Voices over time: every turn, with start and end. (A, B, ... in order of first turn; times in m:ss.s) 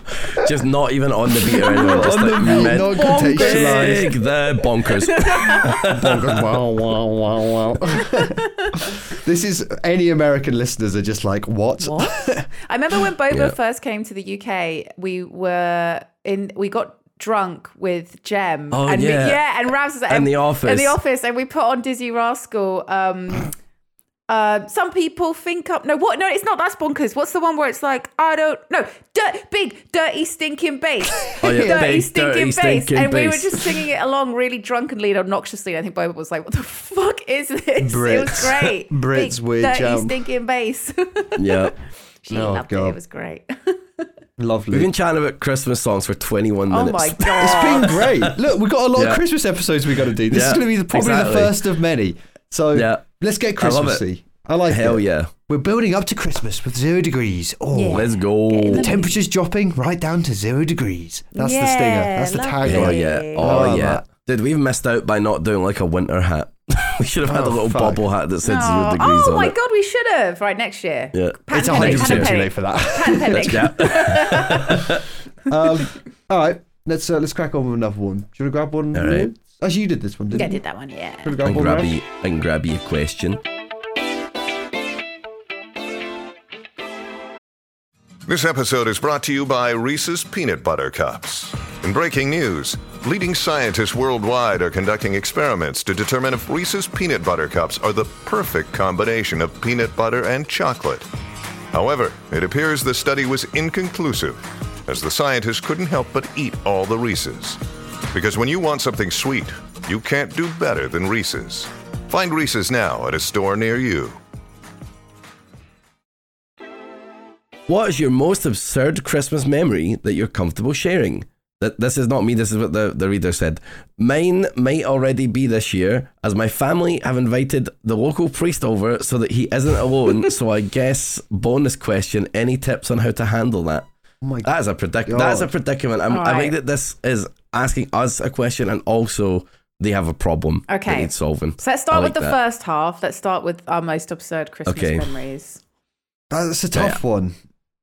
0:00.2-0:06.6 A
0:01.5-0:04.1 B
0:01.5-0:04.1 C
0:04.9-0:05.8 C
0:05.8-0:12.5 B
0:08.0-0:08.9 C
0:11.8-0:23.5 C
0:13.3-0:13.6 A
0:18.7-0:19.4 A
0:20.1-0:21.0 A
0:24.3-0:41.7 C
0:31.4-0:33.7 A
0:31.4-0:31.7 B
0:37.8-0:40.1 B
0:41.4-0:41.7 A
0:42.2-0:44.1 C
0:42.3-0:43.0 B
0:44.4-0:44.9 B
0:44.7-0:48.3 A
0:46.7-0:48.0 C
0:47.4-0:58.1 B
0:49.0-0:49.2 A
0:50.3-0:51.6 A
0:52.7-0:53.0 A
0:53.6-0:54.0 A
0:54.7-0:55.3 A
0:57.7-0:59.2 C
0:57.9-0:58.9 A
0:58.7-1:04.0 B
1:01.3-1:03.5 C
1:02.6-1:09.5 A
1:07.2-1:08.0 B
1:08.4-1:14.8 C
1:11.1-1:12.3 A
1:11.5-1:14.8 B
1:13.3-1:15.0 A
1:15.5-1:20.6 B
1:18.9-1:19.3 A
1:20.3-1:21.3 C
1:21.2-1:22.0 B
1:21.4-1:23.4 A
1:28.3-1:41.1 D
1:41.7-1:47.6 D
1:48.1-1:54.2 D
1:57.7-2:13.8 A
2:14.2-2:14.5 B
2:14.4-2:22.4 A
2:15.0-2:15.5 B
2:16.1-2:16.5 C
2:20.7-2:25.6 C
2:24.7-2:25.0 A
2:26.3-2:27.4 B
2:26.7-2:27.0 A